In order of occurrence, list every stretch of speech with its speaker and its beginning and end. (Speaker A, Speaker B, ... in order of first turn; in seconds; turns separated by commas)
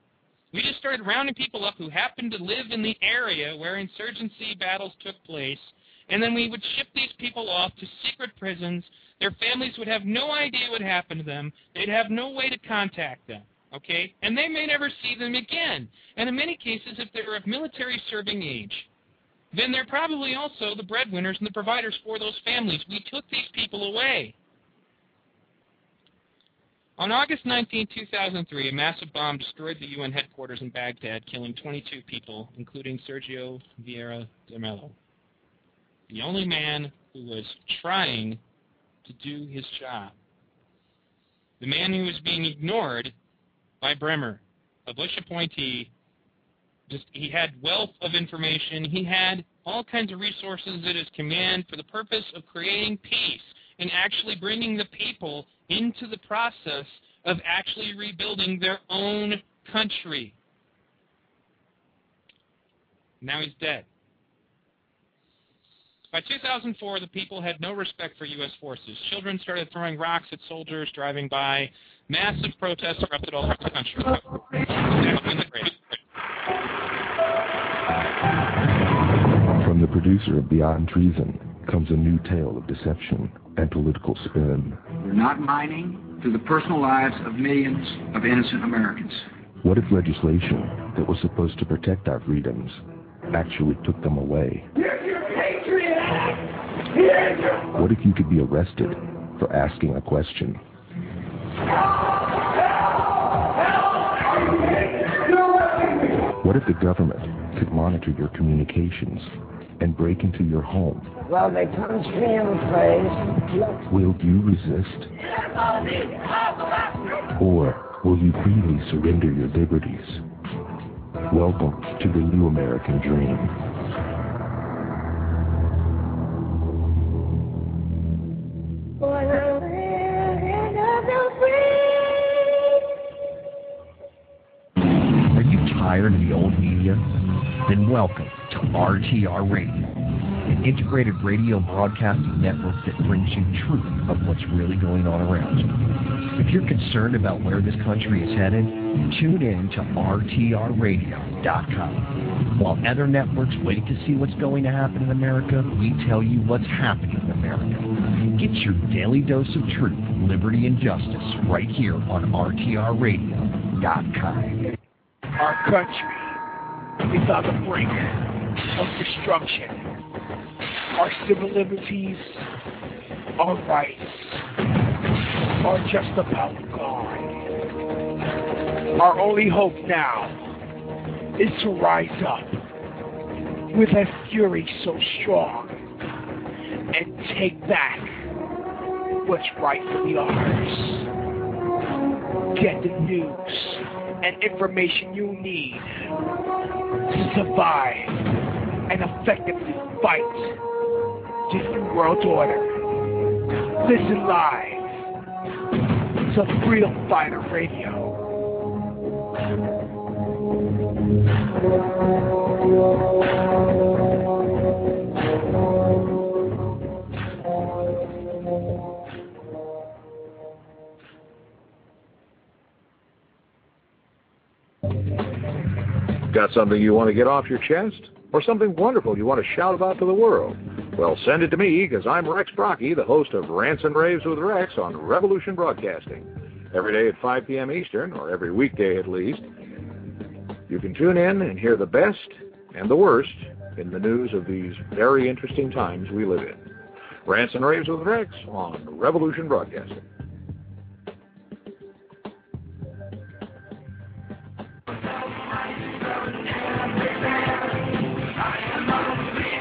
Speaker A: 0.5-18.9, Speaker A: 19.5-24.4, Speaker A: 27.0-35.0, Speaker A: 36.1-38.4, Speaker A: 39.0-40.1, Speaker A: 41.6-43.1, Speaker A: 43.8-45.9, Speaker A: 46.9-60.4, Speaker A: 63.2-63.9, Speaker A: 66.1-76.0, Speaker B: 79.5-84.8, Speaker C: 85.0-89.2, Speaker B: 89.6-94.7, Speaker B: 97.7-100.6, Speaker B: 106.4-111.1, Speaker D: 111.2-113.8, Speaker B: 113.9-115.1, Speaker B: 117.3-120.2, Speaker B: 121.3-123.6, Speaker D: 129.0-131.2, Speaker E: 135.3-164.7, Speaker F: 165.4-166.4, Speaker F: 167.1-168.2, Speaker F: 168.7-169.9, Speaker F: 170.9-172.5, Speaker F: 173.4-174.4, Speaker F: 175.6-177.4, Speaker F: 179.0-180.5, Speaker F: 181.4-182.6, Speaker F: 183.7-185.8, Speaker F: 186.9-188.3, Speaker F: 189.2-191.1, Speaker F: 192.5-196.2, Speaker F: 197.1-198.3, Speaker F: 198.9-200.6, Speaker F: 201.5-202.9, Speaker F: 203.8-205.0, Speaker F: 206.3-208.3, Speaker G: 226.2-239.5, Speaker G: 240.7-246.7, Speaker G: 247.2-250.1